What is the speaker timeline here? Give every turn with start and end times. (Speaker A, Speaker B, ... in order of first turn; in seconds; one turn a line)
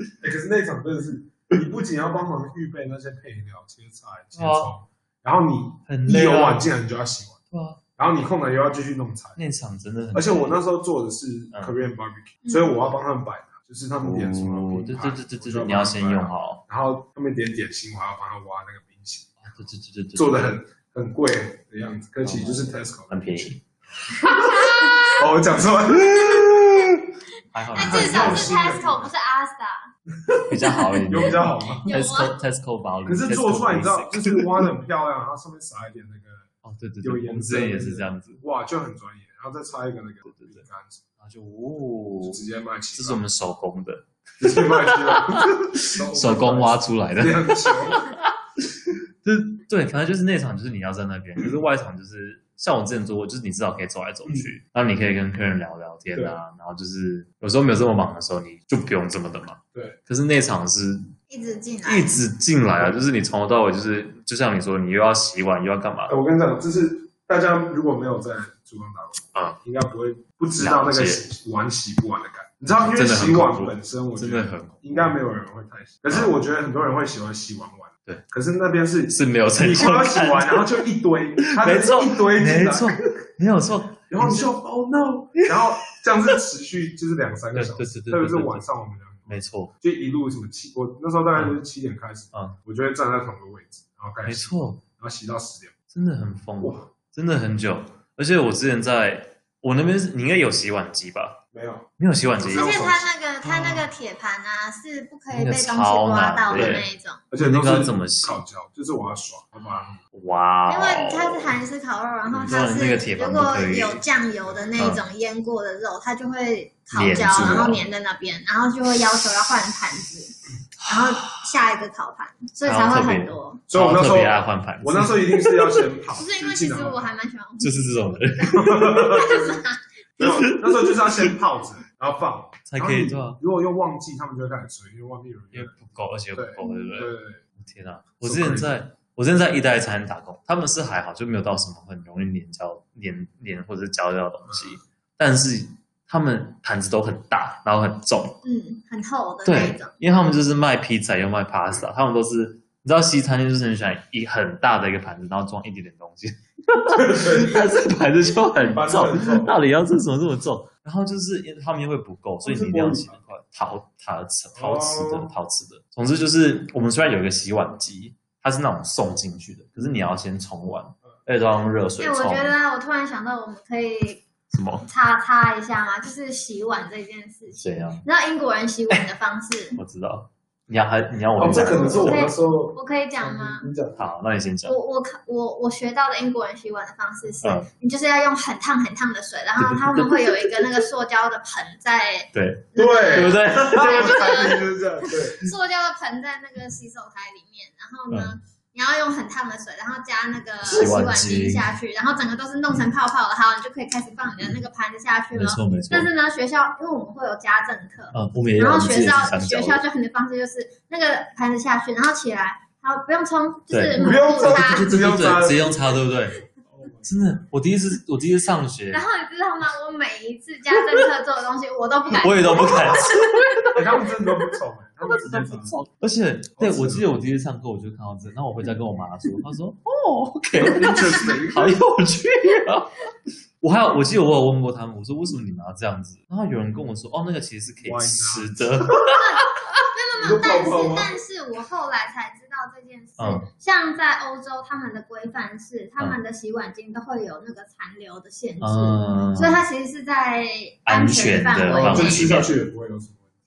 Speaker A: 0.2-7.4
Speaker B: 4.4-4.7
Speaker B: 5.9-6.7
Speaker B: 7.5-7.8
Speaker A: 8.0-9.4
Speaker B: 9.4-10.6
Speaker A: 10.1-19.4
Speaker C: 12.4-12.8
Speaker B: 14.0-16.6
Speaker B: 19.4-20.5
Speaker A: 20.1-27.1
Speaker B: 22.2-23.6
Speaker C: 24.1-25.3
Speaker C: 26.1-26.4
Speaker B: 27.5-28.6
Speaker C: 27.7-29.9
Speaker A: 27.8-29.1
Speaker A: 30.2-31.9
Speaker B: 30.5-34.7
Speaker C: 30.8-31.3
Speaker C: 31.9-32.4
Speaker A: 33.1-36.5
Speaker B: 36.6-38.4
Speaker A: 37.0-41.0
Speaker B: 40.3-40.6
Speaker B: 41.2-48.7
Speaker A: 42.2-43.3
Speaker A: 44.4-48.1
Speaker B: 49.2-61.1
Speaker C: 61.3-62.1
Speaker B: 61.9-66.1
Speaker A: 66.1-83.0
Speaker B: 70.6-71.2
Speaker B: 72.8-75.2
Speaker B: 79.1-80.7
Speaker B: 81.4-84.5
Speaker A: 84.1-95.8
Speaker B: 85.4-85.9
Speaker B: 87.5-88.6
Speaker B: 89.3-89.7
Speaker B: 94.2-94.8
Speaker B: 95.9-101.4
Speaker A: 96.6-96.9
Speaker A: 101.5-103.1
Speaker B: 102.0-103.9
Speaker C: 102.5-107.2
Speaker B: 105.3-108.4
Speaker A: 106.5-110.0
Speaker B: 110.1-111.6
Speaker C: 110.7-123.6
Speaker B: 112.3-114.0
Speaker B: 114.8-115.0
Speaker B: 116.9-117.8
Speaker B: 120.8-121.4
Speaker B: 122.7-125.8
Speaker A: 123.7-127.1
Speaker C: 126.2-129.8
Speaker B: 127.6-129.2
Speaker A: 128.5-129.6
Speaker A: 130.2-135.8
Speaker B: 130.2-131.4
Speaker B: 132.7-133.4
Speaker B: 135.5-148.4
Speaker A: 136.3-137.4
Speaker C: 136.6-137.0
Speaker A: 138.2-138.8
Speaker C: 148.4-149.9
Speaker B: 149.4-172.6
Speaker A: 156.9-157.7
Speaker A: 158.7-159.6
Speaker A: 162.4-163.2
Speaker A: 164.6-165.3
Speaker C: 172.0-174.2
Speaker B: 174.5-174.8
Speaker C: 174.8-179.8
Speaker B: 177.6-178.1
Speaker B: 179.8-182.3
Speaker A: 181.4-184.1
Speaker C: 181.9-183.7
Speaker B: 184.0-184.8
Speaker C: 184.7-194.7
Speaker B: 187.4-187.7
Speaker B: 189.6-190.7
Speaker B: 192.3-194.5
Speaker A: 192.8-195.5
Speaker C: 195.3-214.9
Speaker B: 198.1-198.3
Speaker B: 200.6-201.7
Speaker B: 205.3-206.1
Speaker B: 208.1-209.8
Speaker B: 213.7-216.5
Speaker A: 214.0-215.8
Speaker A: 216.7-217.4
Speaker B: 217.1-219.0
Speaker C: 218.9-223.7
Speaker B: 222.2-223.9
Speaker A: 223.7-225.7
Speaker B: 225.0-239.7
Speaker A: 226.6-227.2
Speaker A: 230.6-231.8
Speaker A: 237.8-238.9
Speaker C: 239.0-252.4
Speaker A: 240.2-241.1
Speaker B: 243.2-243.5
Speaker B: 248.6-249.6
Speaker B: 250.9-252.5
Speaker A: 251.7-253.2